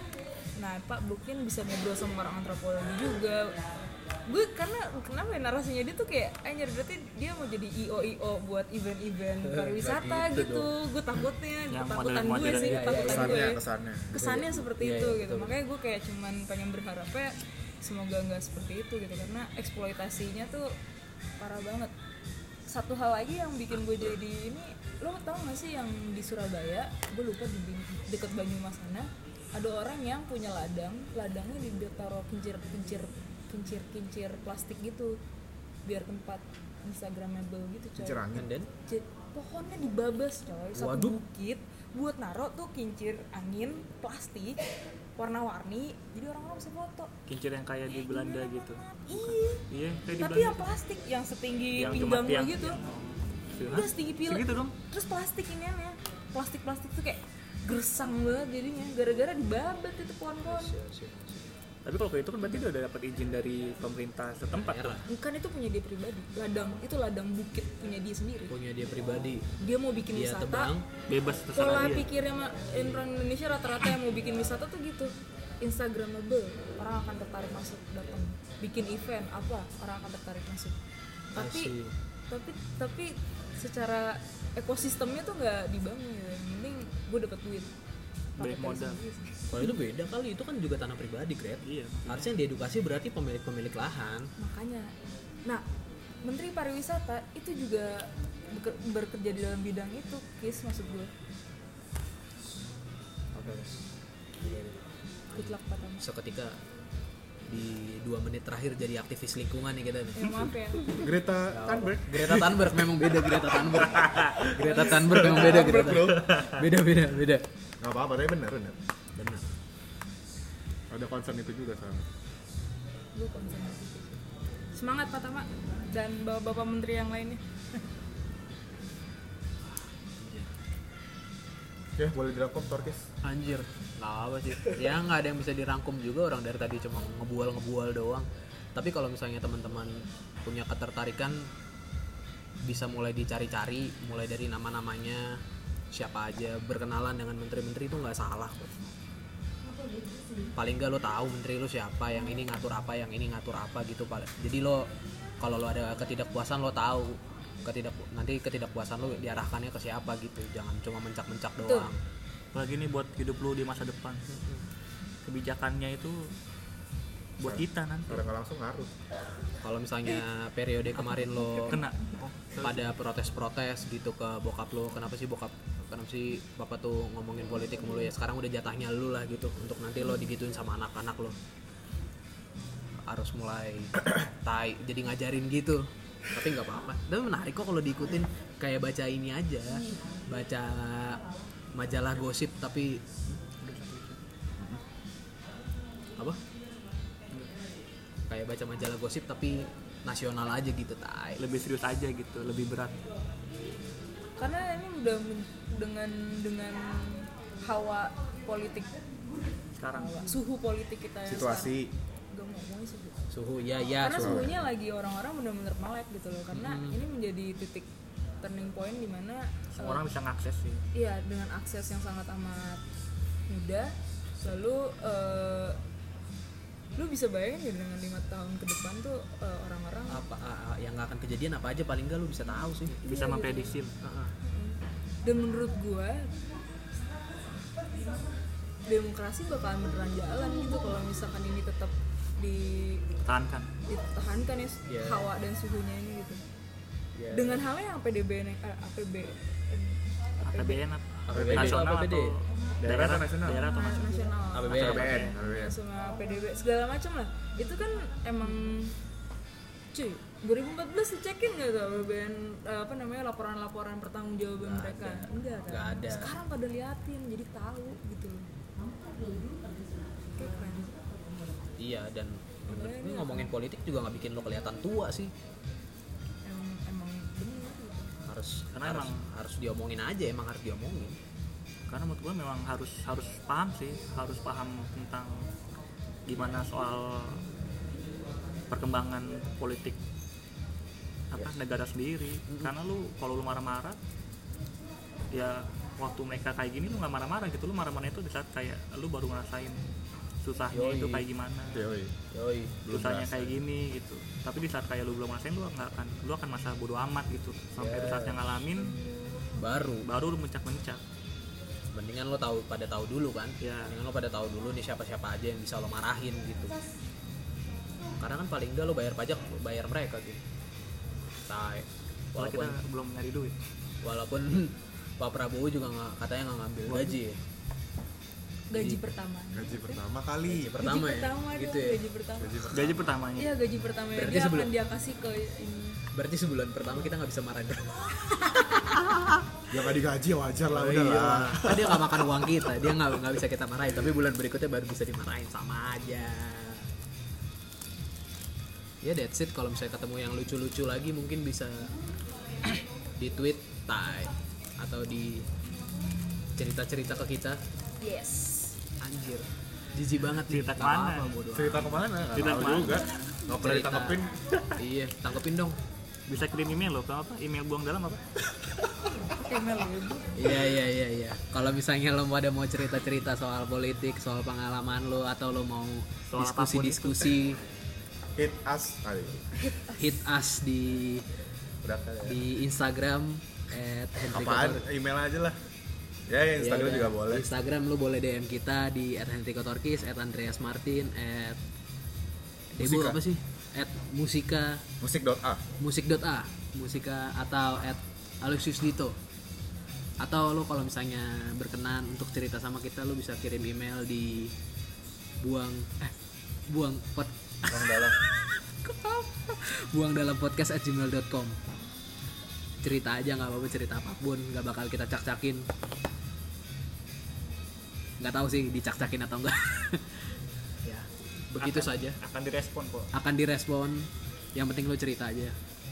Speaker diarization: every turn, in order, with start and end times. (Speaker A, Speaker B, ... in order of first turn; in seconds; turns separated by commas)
Speaker A: 0.6-3.5, Speaker A: 4.3-20.8, Speaker B: 9.4-10.7, Speaker C: 11.7-13.1, Speaker B: 12.4-13.5, Speaker D: 13.0-14.2, Speaker B: 14.1-15.6, Speaker A: 21.4-21.9, Speaker A: 22.7-35.2, Speaker A: 35.9-38.2, Speaker D: 38.0-38.5, Speaker B: 38.3-38.7, Speaker A: 38.9-44.6, Speaker B: 40.8-41.2, Speaker A: 45.2-47.1, Speaker C: 47.3-50.8, Speaker A: 47.9-49.6, Speaker A: 50.2-52.8, Speaker C: 51.8-54.8, Speaker A: 53.6-60.7, Speaker B: 60.5-61.5, Speaker C: 61.9-65.0, Speaker B: 64.5-65.1, Speaker A: 65.1-68.5, Speaker B: 68.5-69.5, Speaker A: 69.6-70.7, Speaker B: 70.1-70.9, Speaker C: 71.1-72.1, Speaker A: 71.5-80.8, Speaker A: 81.3-81.8, Speaker B: 81.3-81.9, Speaker A: 82.3-87.7, Speaker A: 88.4-89.8, Speaker C: 88.4-89.0, Speaker B: 89.5-94.3, Speaker C: 91.6-92.3, Speaker A: 94.4-94.9, Speaker A: 96.2-101.1, Speaker B: 103.3-103.9, Speaker B: 104.4-104.8, Speaker B: 105.3-106.6, Speaker A: 105.3-106.0, Speaker B: 107.5-110.5, Speaker A: 110.2-110.9, Speaker D: 111.0-116.3, Speaker B: 111.0-117.5, Speaker A: 114.7-115.8, Speaker C: 115.8-116.6, Speaker D: 117.8-118.8, Speaker B: 119.2-119.5, Speaker D: 120.9-122.1, Speaker A: 123.2-124.2, Speaker A: 124.7-127.8, Speaker B: 130.1-130.5, Speaker D: 132.0-133.1, Speaker B: 133.2-141.5, Speaker B: 142.6-148.9, Speaker B: 150.5-154.9, Speaker B: 155.4-162.0, Speaker A: 161.7-161.9, Speaker C: 162.5-164.2, Speaker B: 164.3-164.6, Speaker C: 165.2-166.3, Speaker C: 167.4-168.2, Speaker D: 167.4-168.9, Speaker B: 169.6-171.8, Speaker A: 171.0-171.9, Speaker C: 171.6-172.9, Speaker B: 172.6-181.4, Speaker B: 183.1-191.2, Speaker B: 191.8-193.0, Speaker C: 193.5-194.2, Speaker B: 198.3-201.4, Speaker C: 201.4-203.0, Speaker A: 204.4-209.0, Speaker C: 209.7-210.2, Speaker A: 209.9-211.8, Speaker D: 211.3-211.9, Speaker A: 212.3-213.2, Speaker B: 213.3-214.6, Speaker A: 214.0-217.9, Speaker D: 214.2-214.6, Speaker B: 216.5-217.0, Speaker A: 218.4-220.0, Speaker C: 219.7-220.8, Speaker A: 220.9-222.8, Speaker A: 223.5-225.8, Speaker A: 227.0-230.2, Speaker B: 230.1-233.0, Speaker A: 233.0-233.8, Speaker C: 233.1-233.9, Speaker B: 234.0-234.3, Speaker A: 234.5-236.4, Speaker A: 238.9-243.1, Speaker C: 243.3-243.7, Speaker A: 243.9-246.4, Speaker B: 244.9-245.3, Speaker B: 247.2-247.6, Speaker A: 247.3-250.8, Speaker C: 250.4-255.5, Speaker B: 251.3-252.3, Speaker D: 251.3-251.8, Speaker D: 252.8-253.7, Speaker A: 253.6-259.0, Speaker B: 254.5-255.1, Speaker D: 254.8-255.8, Speaker A: 259.9-268.5, Speaker B: 264.6-266.3, Speaker A: 270.3-271.0, Speaker B: 271.8-275.3, Speaker A: 272.7-273.5, Speaker A: 276.4-278.1, Speaker B: 278.2-281.2, Speaker C: 278.7-279.2, Speaker C: 281.9-285.4, Speaker C: 286.3-287.4, Speaker C: 288.7-290.0, Speaker C: 291.3-294.0, Speaker B: 292.5-292.7, Speaker C: 295.3-299.8, Speaker C: 300.4-301.9, Speaker B: 300.7-301.3, Speaker D: 301.7-302.2, Speaker B: 302.3-302.8, Speaker D: 302.9-303.6, Speaker C: 302.9-309.0, Speaker B: 307.8-308.4, Speaker B: 309.6-310.1, Speaker C: 310.0-311.0, Speaker B: 311.9-316.8, Speaker C: 313.6-313.9, Speaker B: 318.2-320.4, Speaker B: 321.4-322.8, Speaker C: 322.4-323.6, Speaker B: 324.0-327.4, Speaker C: 326.9-327.2, Speaker A: 328.7-330.0, Speaker B: 328.7-329.1, Speaker D: 329.5-330.8, Speaker B: 330.5-332.0, Speaker A: 330.8-332.7, Speaker D: 332.4-333.1, Speaker C: 332.7-333.6, Speaker A: 333.4-336.0, Speaker B: 334.1-334.7, Speaker B: 336.1-338.0, Speaker A: 338.2-339.0, Speaker B: 339.0-339.4, Speaker D: 339.7-342.9, Speaker B: 340.7-346.9, Speaker B: 349.0-351.9, Speaker B: 353.2-355.5, Speaker B: 356.6-357.6, Speaker A: 358.0-358.8, Speaker B: 359.0-362.1, Speaker C: 360.4-361.4, Speaker D: 361.5-364.3, Speaker C: 362.3-363.1, Speaker B: 363.6-364.2, Speaker B: 364.8-365.8, Speaker C: 366.3-368.2, Speaker A: 369.3-370.6, Speaker B: 370.4-377.6, Speaker C: 376.3-377.4, Speaker D: 378.4-379.5, Speaker B: 379.9-381.2, Speaker D: 381.8-382.4, Speaker B: 382.2-384.8, Speaker D: 384.3-385.6, Speaker D: 386.3-387.5, Speaker B: 386.6-391.6, Speaker B: 392.7-394.9, Speaker D: 392.8-393.2, Speaker D: 395.0-395.6, Speaker B: 395.8-399.2, Speaker B: 400.2-404.6, Speaker B: 405.4-406.1, Speaker B: 406.7-411.6, Speaker D: 407.7-408.2, Speaker B: 412.8-415.7, Speaker B: 418.2-420.2, Speaker B: 420.8-422.2, Speaker C: 421.6-423.1, Speaker B: 423.1-425.6